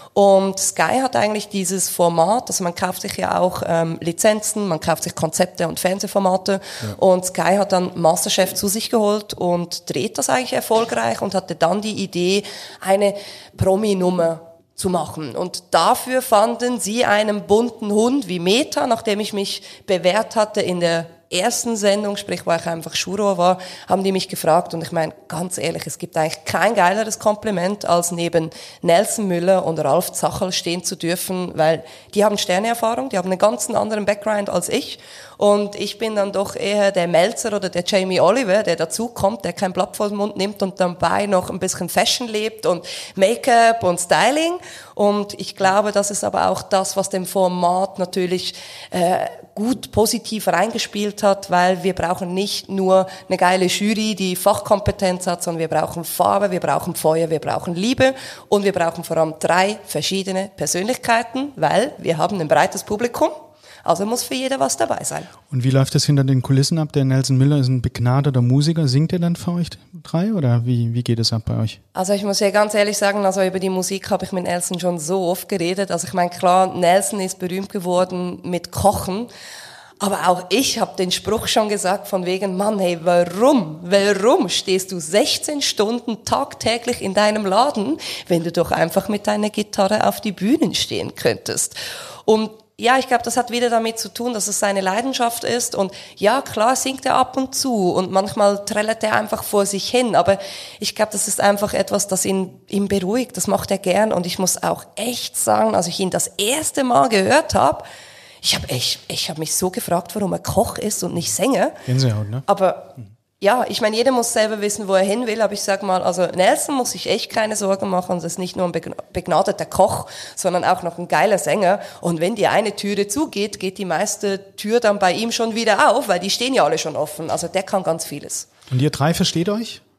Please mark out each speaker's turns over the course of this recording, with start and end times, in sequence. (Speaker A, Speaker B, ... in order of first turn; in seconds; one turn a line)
Speaker A: 0.1-65.3
Speaker B: 65.5-71.8
Speaker A: 72.0-79.3
Speaker A: 80.0-107.9
Speaker A: 108.4-111.8
Speaker B: 111.9-112.5
Speaker A: 112.5-128.5
Speaker B: 128.7-129.8